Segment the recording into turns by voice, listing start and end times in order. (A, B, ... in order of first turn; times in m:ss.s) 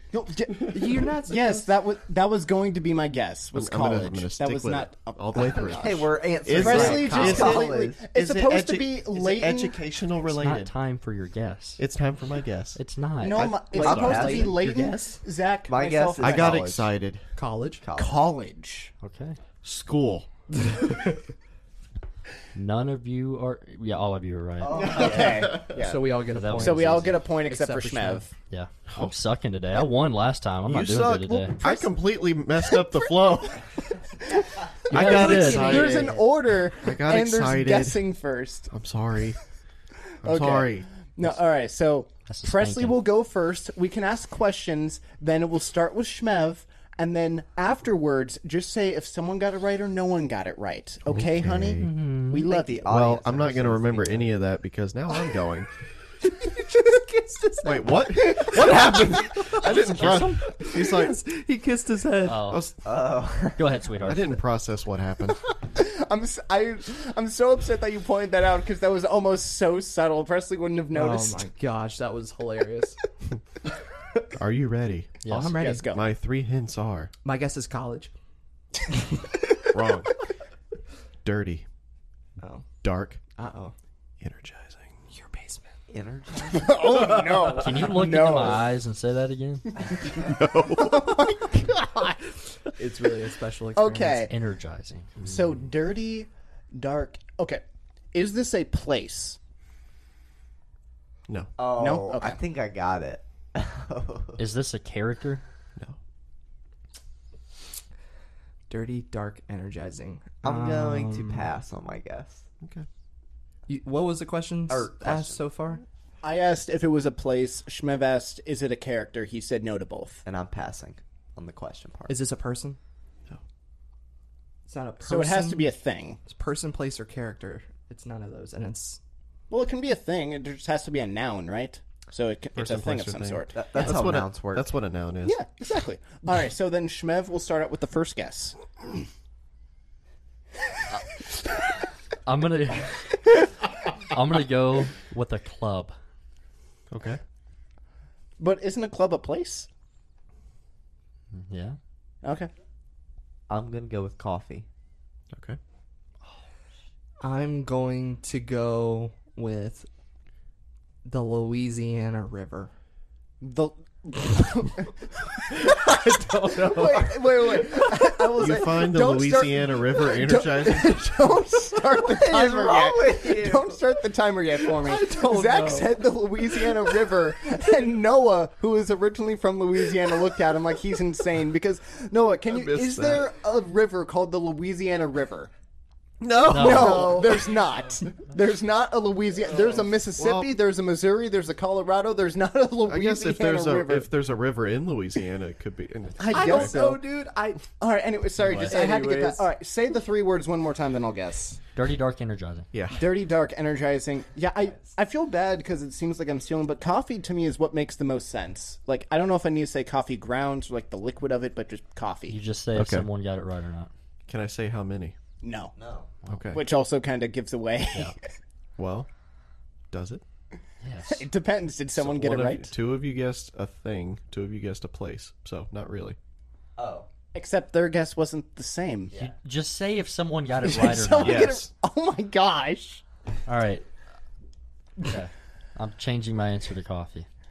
0:00.1-0:09.8 A
0:00.7-0:01.7 B
0:03.5-0:10.7 C
0:05.5-0:08.0 D
0:06.6-0:07.6 B
0:10.3-0:11.8 E
0:11.8-0:12.8 C
0:12.8-0:13.6 E
0:13.2-0:16.7 A
0:13.7-0:15.2 B
0:13.7-0:14.6 D
0:13.8-0:14.3 C
0:15.7-0:16.9 D
0:16.2-0:17.2 C
0:17.4-0:17.8 B
0:17.8-0:18.2 D
0:18.0-0:18.9 A
0:19.0-0:19.4 E
0:19.6-0:20.3 C
0:20.6-0:21.0 B
0:22.6-0:25.0 E
0:24.6-0:25.6 D
0:24.8-0:28.3 A
0:25.7-0:28.2 B
0:26.3-0:27.2 E
0:28.5-0:31.6 E
0:28.9-0:29.2 C
0:30.7-0:33.7 C
0:31.6-0:31.9 A
0:34.9-0:36.2 C
0:34.9-0:36.3 B
0:34.9-0:35.8 E
0:34.9-0:38.7 A
0:36.8-0:38.0 C
0:38.7-0:39.4 C
0:40.2-0:40.9 C
0:40.2-0:52.9 A
0:42.3-0:43.0 E
0:51.1-0:52.1 C
0:51.8-0:52.5 E
0:52.4-0:54.3 D
0:52.9-0:55.7 C
0:56.3-1:02.6 B
0:57.6-1:01.2 C
1:02.2-1:02.7 E
1:02.3-1:02.8 C
1:02.8-1:03.8 D
1:03.6-1:04.4 E
1:04.0-1:05.4 C
1:05.6-1:11.4 A
1:10.9-1:13.0 B
1:14.3-1:15.3 C
1:15.2-1:15.6 E
1:15.3-1:15.9 B
1:15.5-1:16.0 A
1:15.9-1:17.1 C
1:17.2-1:18.1 B
1:19.7-1:20.1 C
1:21.2-1:21.6 C
1:22.4-1:22.7 B
1:22.8-1:23.2 C
1:23.3-1:23.7 B
1:24.2-1:25.0 C
1:25.1-1:25.7 B
1:25.9-1:26.9 D
1:26.5-1:28.7 A
1:27.4-1:29.7 E
1:29.9-1:32.3 A
1:30.2-1:31.2 C
1:32.8-1:34.3 B
1:33.8-1:34.3 A
1:34.3-1:35.4 E
1:35.2-1:37.6 A
1:38.1-1:39.4 A
1:41.3-1:41.5 C
1:41.6-1:44.4 D
1:41.8-1:42.4 A
1:44.4-1:45.4 E
1:48.7-1:51.5 B
1:50.4-1:52.4 D
1:52.6-1:52.9 C
1:53.7-1:55.8 B
1:54.7-1:55.7 D
1:56.2-2:00.2 A
2:00.2-2:02.2 D
2:02.1-2:02.8 B
2:04.7-2:05.7 B
2:05.0-2:06.2 A
2:06.3-2:09.0 B
2:09.5-2:14.0 A
2:12.6-2:15.4 C
2:13.5-2:14.7 D
2:15.2-2:18.6 A
2:22.2-2:23.5 E
2:24.0-2:26.0 E
2:26.9-2:27.2 C
2:28.4-2:29.7 A
2:31.3-2:31.8 E
2:32.2-2:32.5 A
2:33.5-2:34.7 D
2:35.3-2:35.6 C
2:37.2-2:39.9 B
2:41.0-2:42.7 B
2:43.4-3:05.5 A
2:46.6-2:46.9 B
2:48.4-2:51.0 C
2:52.0-2:53.8 D
2:54.8-2:56.0 B
3:02.5-3:03.3 C
3:06.2-3:07.6 C
3:06.4-3:14.1 A
3:06.5-3:07.2 E
3:10.2-3:10.5 C
3:12.9-3:16.8 C
3:16.2-3:21.6 A
3:16.3-3:17.6 B
3:18.4-3:18.8 E
3:18.6-3:19.5 B
3:21.8-3:22.7 E
3:22.7-3:23.1 C
3:22.9-3:32.4 A
3:32.3-3:33.9 E
3:32.8-3:33.1 C
3:34.3-3:35.2 C
3:35.4-3:35.7 A
3:35.8-3:36.1 D
3:36.3-3:36.6 C
3:36.5-3:38.2 A
3:38.8-3:39.1 C
3:39.9-3:40.2 C
3:40.8-3:41.3 E
3:41.1-3:42.7 A
3:42.0-3:46.2 C
3:46.8-3:47.1 D
3:47.3-3:49.1 A
3:49.1-3:49.4 D
3:49.1-3:51.5 E
3:50.6-3:53.0 A
3:51.2-3:51.6 C
3:53.5-3:53.8 E
3:55.0-3:57.3 E